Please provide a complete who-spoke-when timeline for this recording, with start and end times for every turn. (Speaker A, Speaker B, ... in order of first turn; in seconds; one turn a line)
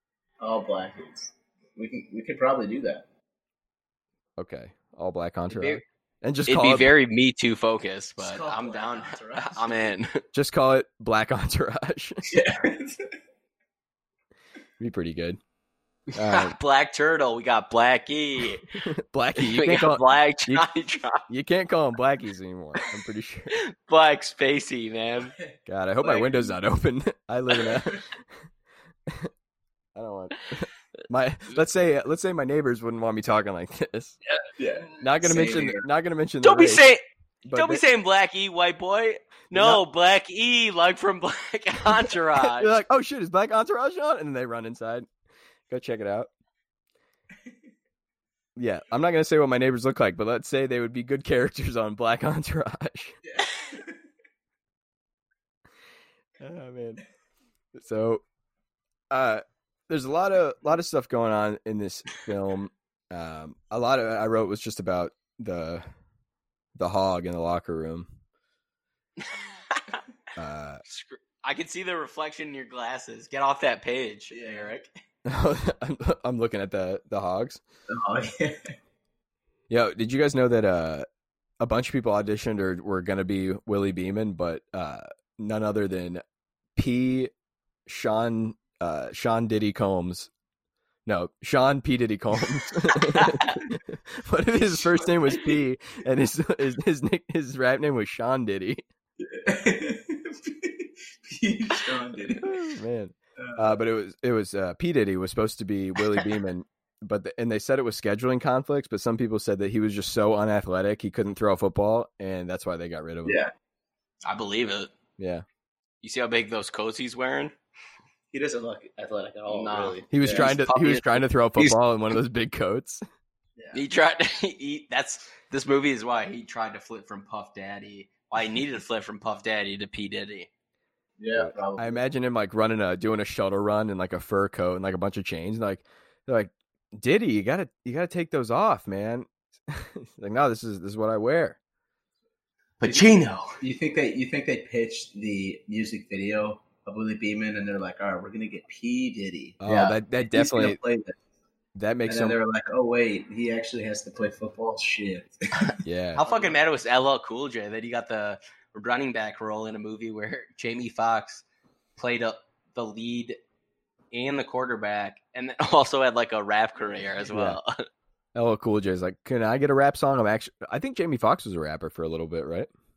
Speaker A: 0.4-3.0
Speaker B: 4.4-6.9
Speaker C: 5.5-5.8
Speaker C: 6.5-10.2
Speaker A: 8.2-9.9
Speaker B: 10.3-12.3
Speaker A: 12.3-13.1
Speaker B: 14.8-15.4
Speaker C: 16.1-18.7
Speaker B: 16.1-16.6
Speaker B: 18.8-20.6
Speaker C: 19.4-21.2
Speaker B: 21.3-23.6
Speaker C: 23.5-25.3
Speaker A: 25.4-26.6
Speaker B: 25.7-28.1
Speaker B: 29.9-34.2
Speaker A: 34.6-35.8
Speaker B: 35.0-36.9
Speaker C: 36.4-42.7
Speaker B: 37.5-37.8
Speaker B: 39.5-39.8
Speaker B: 42.4-45.1
Speaker B: 45.7-46.3
Speaker B: 48.5-53.2
Speaker A: 53.2-54.0
Speaker B: 56.4-57.0
Speaker B: 57.7-58.2
Speaker B: 59.1-65.8
Speaker B: 66.8-68.1
Speaker C: 69.2-70.0
Speaker B: 70.3-70.8
Speaker C: 70.9-74.9
Speaker A: 74.3-74.7
Speaker B: 75.2-77.6
Speaker A: 77.9-78.7
Speaker B: 79.7-81.0
Speaker B: 81.6-86.2
Speaker B: 86.8-87.3
Speaker B: 87.9-90.3
Speaker B: 91.0-98.8
Speaker C: 93.2-93.5
Speaker A: 99.2-102.5
Speaker B: 102.4-113.4
Speaker A: 103.4-103.8
Speaker A: 113.2-113.5
Speaker C: 114.2-114.9
Speaker B: 115.2-115.4
Speaker C: 116.0-117.5
Speaker A: 118.3-120.5
Speaker C: 119.5-121.8
Speaker B: 120.1-123.0
Speaker A: 123.6-123.8
Speaker C: 123.7-130.5
Speaker A: 131.2-132.0
Speaker B: 131.3-141.6
Speaker C: 142.8-143.5
Speaker A: 143.6-151.2
Speaker B: 149.6-150.8
Speaker B: 151.7-152.4
Speaker A: 152.1-156.6
Speaker C: 155.7-161.4
Speaker B: 155.8-156.2
Speaker C: 162.0-163.4
Speaker C: 164.1-167.8
Speaker B: 167.3-167.6
Speaker B: 168.3-172.7